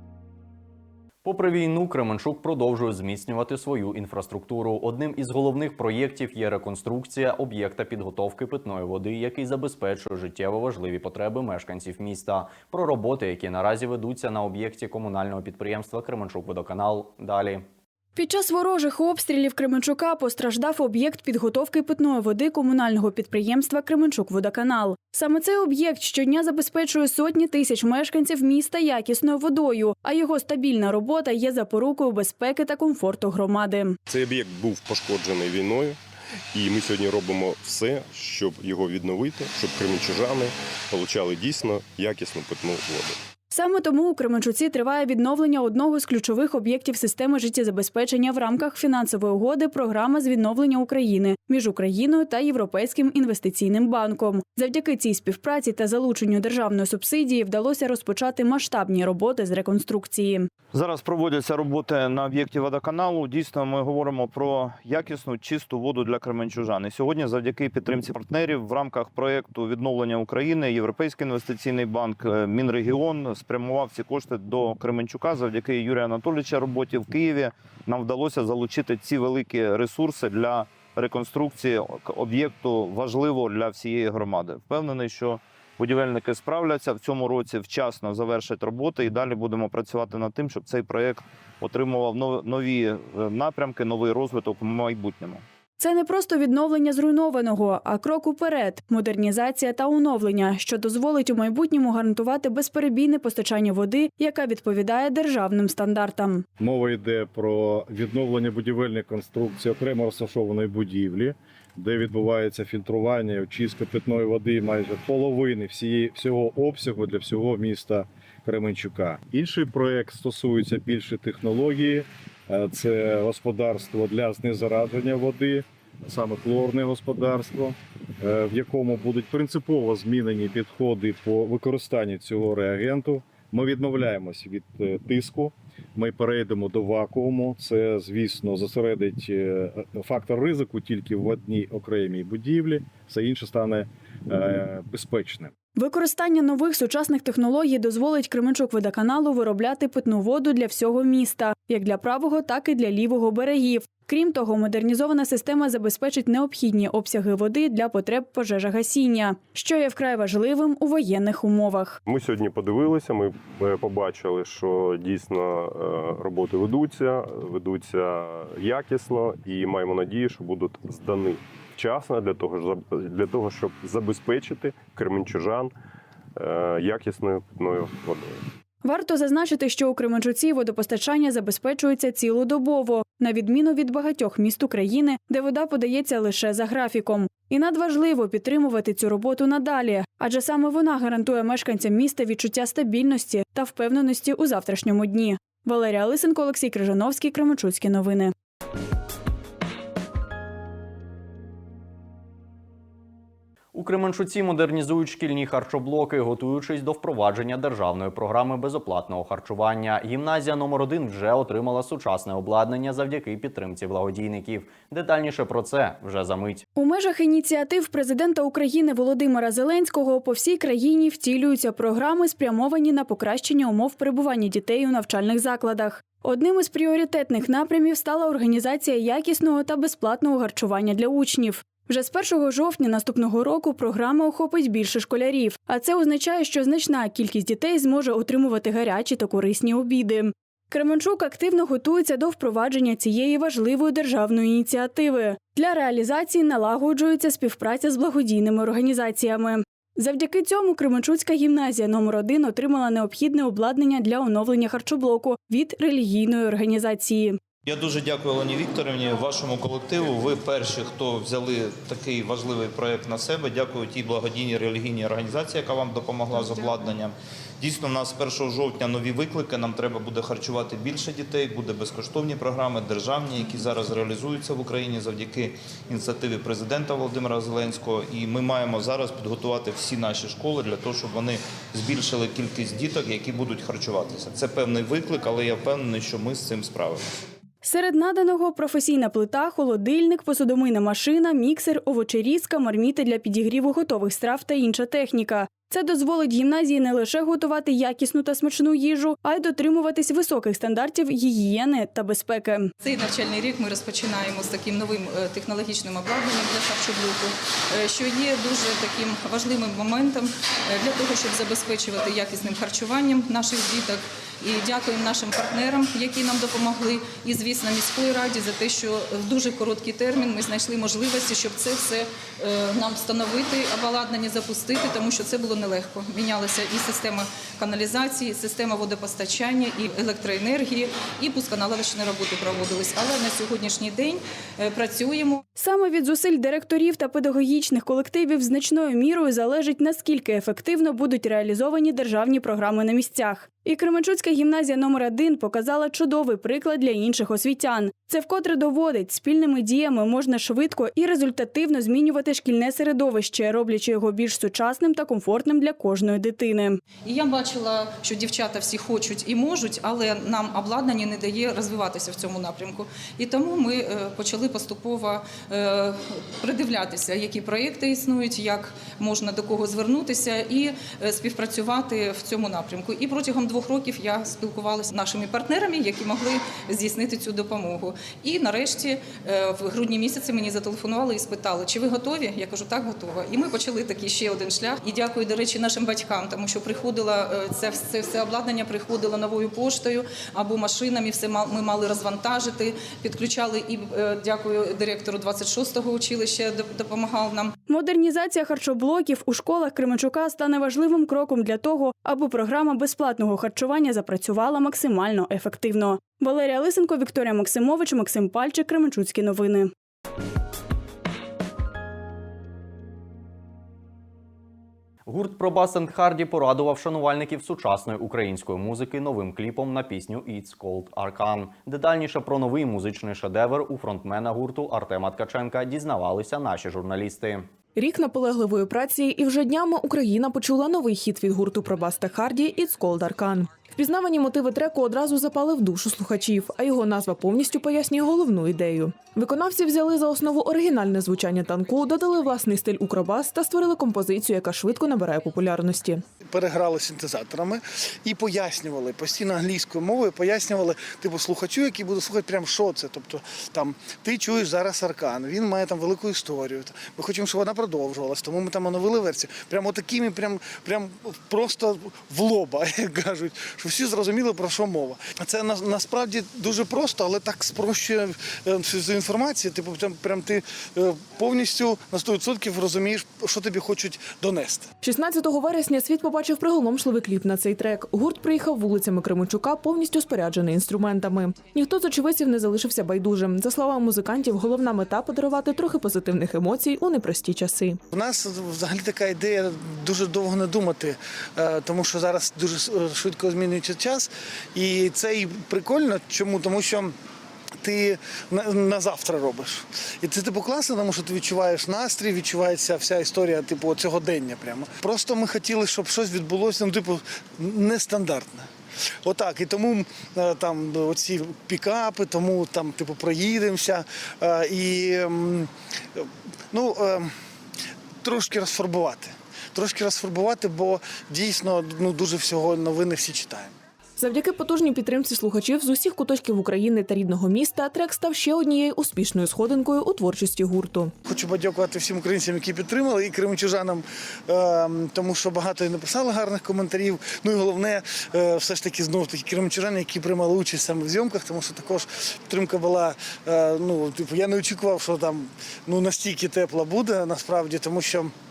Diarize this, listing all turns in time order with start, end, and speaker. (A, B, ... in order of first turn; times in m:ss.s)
0:01.2-0:17.6 A
0:18.2-0:34.0 B
0:34.1-0:36.0 C
0:36.5-0:43.2 C
0:43.5-1:00.5 B
1:00.7-1:35.4 D
1:35.8-1:46.4 B
1:46.6-2:25.5 E
2:25.8-2:42.0 B
2:42.1-2:55.7 C
2:56.4-2:58.4 C
2:58.8-3:18.3 B
3:23.7-3:36.6 A
3:36.8-4:17.4 B
4:17.6-4:47.2 D
4:47.6-5:02.7 B
5:02.8-5:35.4 F
5:35.6-5:56.8 B
5:57.1-6:37.6 F
6:37.7-6:49.7 B
6:55.1-7:07.5 A
7:07.8-7:26.0 G
7:26.3-7:54.7 H
7:54.8-8:07.8 G
8:07.9-8:16.9 H
8:17.6-8:28.4 H
8:29.0-8:37.1 H
8:38.0-8:43.5 H
8:44.0-8:50.9 G
8:51.0-9:08.1 H